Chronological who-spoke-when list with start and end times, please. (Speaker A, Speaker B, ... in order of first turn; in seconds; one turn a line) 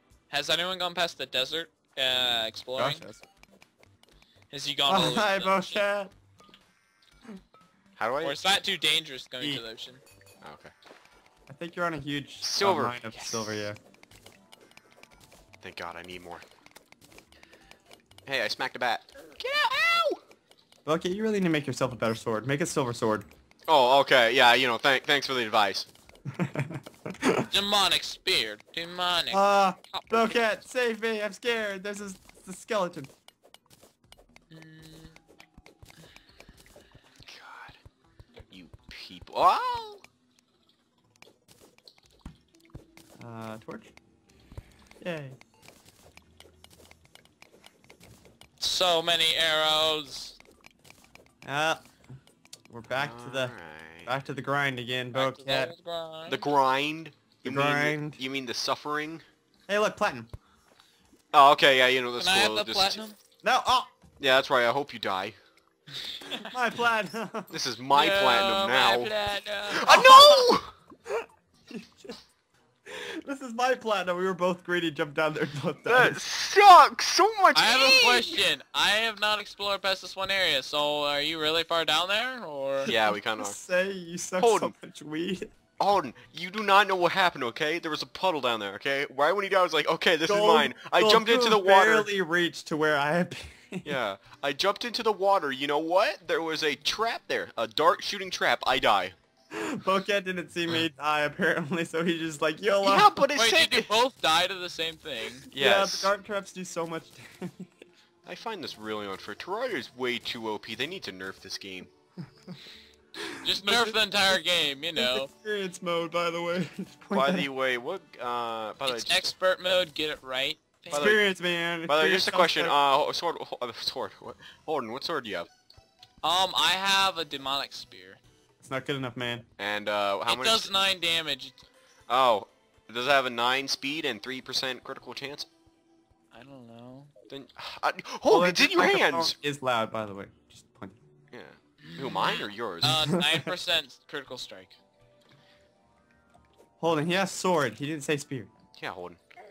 Speaker A: 0.3-3.0
Speaker B: 2.8-3.2
Speaker A: 4.5-5.8
Speaker B: 4.9-6.1
Speaker C: 8.0-8.4
Speaker A: 8.2-10.0
Speaker C: 10.4-10.7
Speaker B: 11.5-13.8
Speaker C: 12.4-13.7
Speaker C: 15.6-16.4
Speaker C: 18.3-20.2
Speaker B: 20.9-23.3
Speaker C: 23.7-25.9
Speaker B: 26.4-27.5
Speaker A: 27.5-30.4
Speaker B: 29.3-33.1
Speaker A: 34.5-35.2
Speaker C: 37.3-37.8
Speaker C: 38.5-40.0
Speaker B: 43.2-43.9
Speaker B: 45.0-45.4
Speaker A: 48.6-50.4
Speaker B: 51.4-51.8
Speaker B: 52.7-53.5
Speaker C: 52.9-54.1
Speaker B: 54.1-55.7
Speaker A: 55.1-56.5
Speaker C: 56.3-59.2
Speaker B: 57.4-58.2
Speaker B: 59.7-60.3
Speaker C: 61.3-63.0
Speaker A: 62.2-63.2
Speaker B: 63.4-63.9
Speaker C: 64.2-65.4
Speaker B: 66.5-67.6
Speaker C: 67.5-69.1
Speaker A: 67.9-70.0
Speaker C: 69.7-70.7
Speaker B: 69.7-70.5
Speaker B: 71.1-72.2
Speaker B: 72.9-76.2
Speaker C: 75.8-78.4
Speaker A: 77.5-82.9
Speaker B: 82.8-85.5
Speaker C: 82.9-83.6
Speaker C: 84.4-84.7
Speaker C: 85.8-92.1
Speaker B: 90.3-94.0
Speaker C: 93.8-99.2
Speaker B: 99.5-103.2
Speaker C: 102.8-103.9
Speaker A: 103.4-105.5
Speaker C: 105.5-106.1
Speaker B: 105.5-107.7
Speaker C: 108.2-111.9
Speaker B: 113.2-114.0
Speaker A: 113.4-115.3
Speaker B: 115.0-117.5
Speaker C: 117.1-119.3
Speaker A: 118.9-121.2
Speaker C: 120.9-121.2
Speaker B: 120.9-122.8
Speaker C: 121.9-125.5
Speaker A: 126.2-128.2
Speaker B: 128.6-129.5
Speaker C: 129.6-130.7
Speaker A: 130.3-131.6
Speaker C: 132.1-135.5
Speaker A: 136.3-137.1
Speaker C: 137.3-139.3
Speaker B: 138.3-141.0
Speaker C: 141.3-143.1
Speaker A: 141.8-144.8
Speaker B: 143.1-143.5
Speaker B: 146.8-148.5
Speaker C: 148.8-149.2